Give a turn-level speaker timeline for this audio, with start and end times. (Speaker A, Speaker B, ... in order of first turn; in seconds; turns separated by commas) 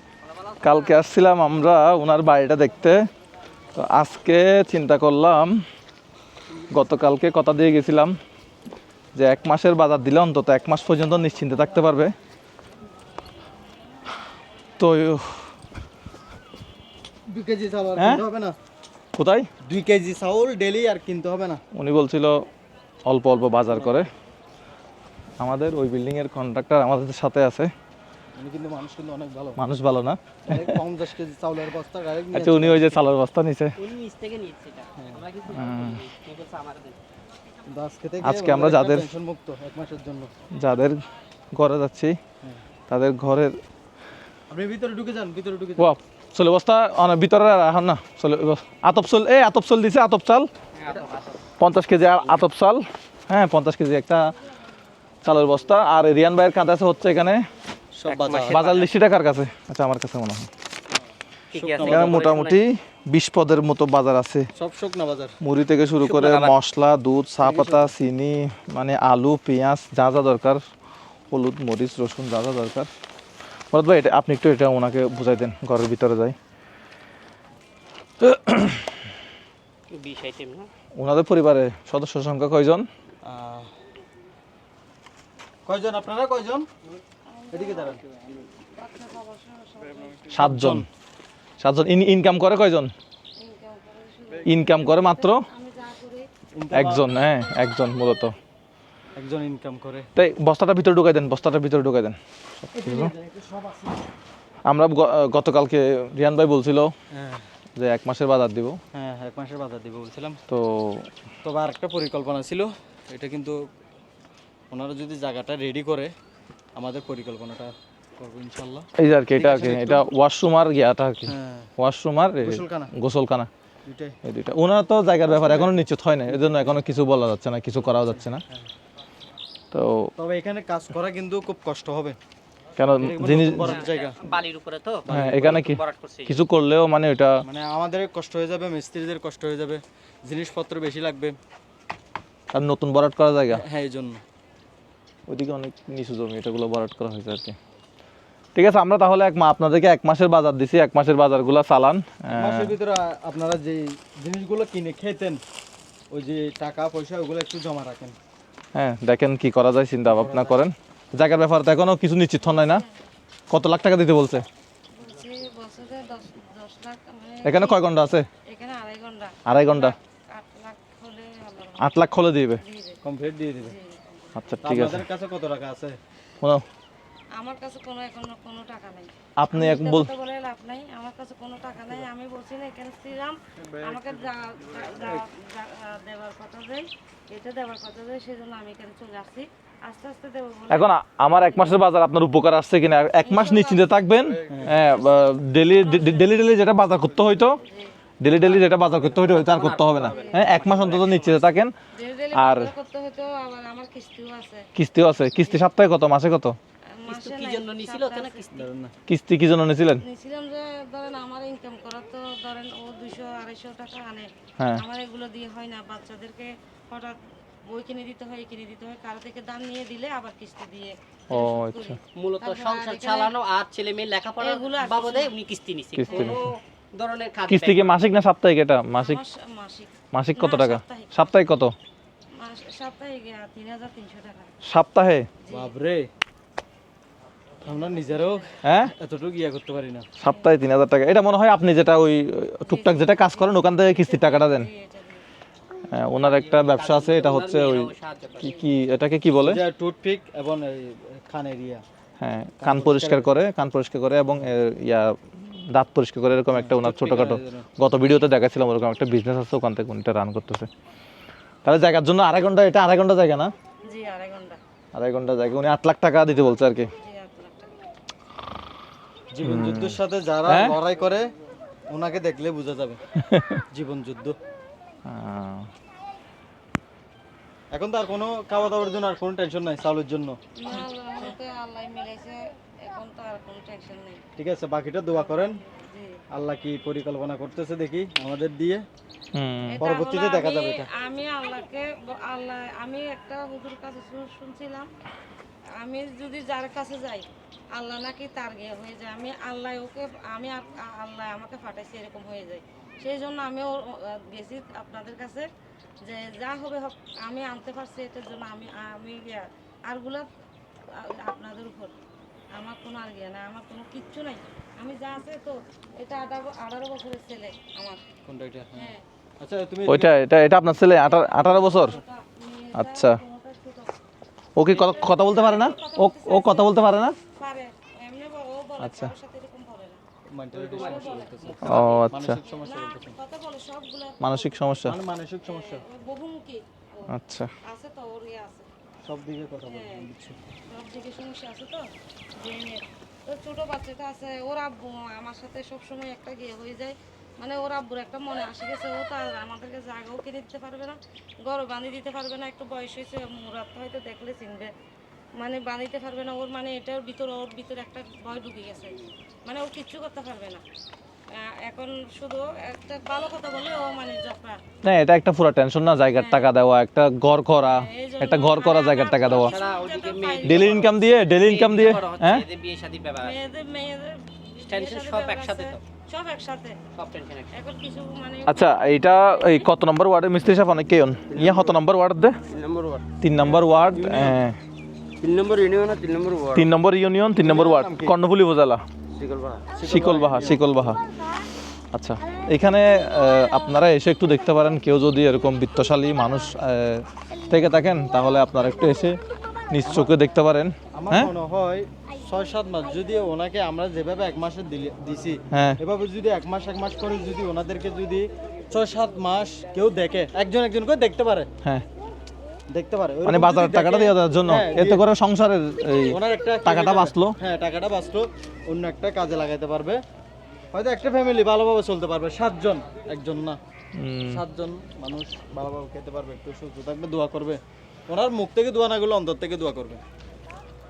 Speaker A: 0.6-3.0, Speaker A: 3.7-5.6, Speaker A: 6.7-8.2, Speaker A: 9.1-12.1, Speaker A: 14.8-15.4, Speaker B: 17.3-18.5, Speaker A: 18.0-18.2, Speaker A: 19.1-19.5, Speaker B: 19.6-21.6, Speaker A: 21.7-22.4, Speaker A: 23.1-24.1, Speaker B: 23.7-24.1, Speaker A: 25.4-27.7, Speaker B: 28.3-29.6, Speaker A: 29.6-30.8, Speaker B: 30.5-33.1, Speaker A: 32.3-33.7, Speaker C: 33.8-37.0, Speaker A: 35.5-36.0, Speaker B: 37.7-40.3, Speaker A: 38.2-39.1, Speaker A: 40.5-42.2, Speaker A: 42.9-43.5, Speaker B: 44.5-45.9, Speaker A: 45.8-50.5, Speaker C: 50.8-51.4, Speaker A: 51.6-54.3, Speaker C: 52.2-52.4, Speaker A: 55.2-57.4, Speaker B: 57.9-58.6, Speaker C: 58.1-58.9, Speaker A: 58.5-60.5, Speaker C: 61.5-62.6, Speaker B: 61.5-62.2, Speaker A: 61.8-64.5, Speaker B: 64.5-65.3, Speaker A: 65.4-70.6, Speaker C: 66.0-66.5, Speaker B: 67.4-67.9, Speaker A: 71.3-72.9, Speaker A: 73.7-76.3, Speaker A: 78.2-79.0, Speaker C: 79.9-80.7, Speaker A: 81.0-82.9, Speaker B: 83.2-83.7, Speaker B: 85.7-86.7, Speaker D: 87.3-88.0, Speaker B: 87.5-88.0, Speaker D: 88.7-90.3, Speaker A: 90.3-90.8, Speaker B: 90.3-90.9, Speaker A: 91.6-92.9, Speaker D: 93.4-96.3, Speaker A: 94.4-95.4, Speaker B: 96.5-97.1, Speaker A: 96.7-98.3, Speaker D: 97.5-98.0, Speaker B: 99.1-100.1, Speaker A: 100.2-103.1, Speaker B: 102.7-104.0, Speaker A: 104.7-106.9, Speaker B: 107.1-107.4, Speaker A: 107.8-108.8, Speaker B: 108.9-110.4, Speaker A: 110.5-111.1, Speaker B: 111.4-113.6, Speaker B: 114.7-116.1, Speaker B: 116.7-120.1, Speaker A: 119.0-123.5, Speaker B: 121.3-121.7, Speaker B: 122.4-122.9, Speaker B: 123.8-124.2, Speaker A: 124.2-128.4, Speaker B: 125.2-125.7, Speaker B: 126.3-126.8, Speaker A: 129.7-130.1, Speaker B: 130.2-132.2, Speaker A: 132.8-133.8, Speaker B: 133.0-134.2, Speaker C: 133.6-136.4, Speaker B: 135.0-135.7, Speaker A: 135.1-137.4, Speaker B: 137.4-141.4, Speaker A: 142.5-143.6, Speaker B: 143.5-144.2, Speaker A: 145.3-147.6, Speaker A: 148.5-152.7, Speaker B: 152.3-155.4, Speaker B: 156.1-158.2, Speaker A: 158.7-162.8, Speaker B: 160.1-160.6, Speaker D: 162.4-163.0, Speaker A: 163.5-164.4, Speaker D: 164.9-171.9, Speaker A: 167.4-168.3, Speaker A: 169.4-169.9, Speaker A: 171.8-172.6, Speaker D: 172.6-173.0, Speaker B: 173.0-173.7, Speaker D: 173.6-174.4, Speaker A: 174.4-175.0, Speaker B: 174.6-176.0, Speaker D: 177.3-191.8, Speaker A: 179.4-180.1, Speaker A: 190.7-197.6, Speaker D: 193.2-193.9, Speaker B: 194.5-194.8, Speaker D: 194.7-196.5, Speaker D: 197.6-197.9, Speaker A: 198.2-201.7, Speaker C: 198.3-201.5, Speaker D: 199.9-200.6, Speaker D: 201.9-204.7, Speaker A: 202.3-202.7, Speaker A: 204.8-206.6, Speaker D: 205.4-205.6, Speaker D: 206.9-208.4, Speaker C: 207.1-208.7, Speaker B: 208.5-208.9, Speaker A: 209.1-210.0, Speaker D: 210.0-223.3, Speaker A: 221.3-222.0, Speaker C: 222.1-228.2, Speaker D: 224.4-225.3, Speaker A: 225.9-226.4, Speaker A: 227.5-229.2, Speaker D: 228.9-231.3, Speaker A: 230.1-231.7, Speaker D: 232.3-234.6, Speaker A: 234.6-235.3, Speaker D: 235.4-235.7, Speaker B: 235.5-236.1, Speaker B: 237.6-240.1, Speaker D: 237.7-238.5, Speaker A: 238.6-238.9, Speaker A: 240.2-244.7, Speaker D: 242.7-245.2, Speaker A: 245.9-249.6, Speaker C: 246.2-248.5, Speaker B: 249.4-251.8, Speaker A: 252.2-260.7, Speaker B: 252.6-253.3, Speaker B: 256.5-257.7, Speaker A: 261.6-263.5, Speaker D: 263.9-264.6, Speaker A: 264.9-266.9, Speaker D: 266.9-267.8, Speaker B: 269.3-271.3, Speaker A: 269.4-270.8, Speaker B: 271.9-273.0, Speaker A: 273.2-273.6, Speaker B: 273.7-274.4, Speaker A: 275.1-275.7, Speaker B: 277.7-280.4, Speaker D: 280.6-284.2, Speaker B: 284.4-285.6, Speaker D: 285.1-286.2, Speaker B: 286.3-288.8, Speaker A: 289.3-289.8, Speaker D: 289.6-294.9, Speaker B: 289.8-290.9, Speaker D: 295.8-305.5, Speaker D: 306.0-310.3, Speaker D: 310.9-311.9, Speaker D: 312.5-318.0, Speaker B: 318.2-320.2, Speaker D: 318.7-319.0, Speaker A: 319.9-322.0, Speaker D: 320.8-323.9, Speaker A: 322.8-323.2, Speaker A: 324.6-327.1, Speaker D: 324.7-330.0, Speaker A: 328.8-329.1, Speaker B: 330.3-333.1, Speaker C: 330.5-332.2, Speaker D: 330.8-331.6, Speaker A: 331.6-332.4, Speaker D: 332.3-334.9, Speaker A: 334.2-334.9, Speaker B: 334.8-335.8, Speaker D: 335.4-337.1, Speaker A: 337.1-337.5, Speaker D: 337.6-338.7, Speaker B: 339.0-340.4, Speaker D: 339.7-340.0, Speaker D: 340.6-354.7, Speaker D: 355.4-360.6, Speaker D: 361.3-364.6, Speaker A: 364.8-369.5, Speaker D: 366.1-366.5, Speaker D: 367.6-371.1, Speaker C: 369.3-373.4, Speaker A: 370.4-372.5, Speaker D: 373.2-376.8, Speaker C: 374.6-375.8, Speaker C: 376.9-377.5, Speaker D: 377.5-379.7, Speaker A: 378.4-382.4, Speaker E: 381.3-381.6, Speaker C: 382.5-383.0, Speaker A: 383.2-384.6, Speaker B: 383.9-384.4, Speaker E: 385.2-386.6, Speaker C: 385.2-386.4, Speaker A: 386.5-388.8, Speaker B: 387.4-388.1, Speaker E: 389.2-389.6, Speaker B: 389.7-390.7, Speaker A: 389.8-391.0, Speaker A: 391.9-399.2, Speaker A: 399.7-401.3, Speaker B: 399.8-400.1, Speaker B: 400.9-411.5, Speaker A: 405.5-405.8, Speaker B: 412.7-415.0, Speaker A: 413.2-417.3, Speaker B: 416.1-420.0, Speaker B: 420.7-423.6, Speaker A: 423.9-424.4, Speaker B: 424.3-430.0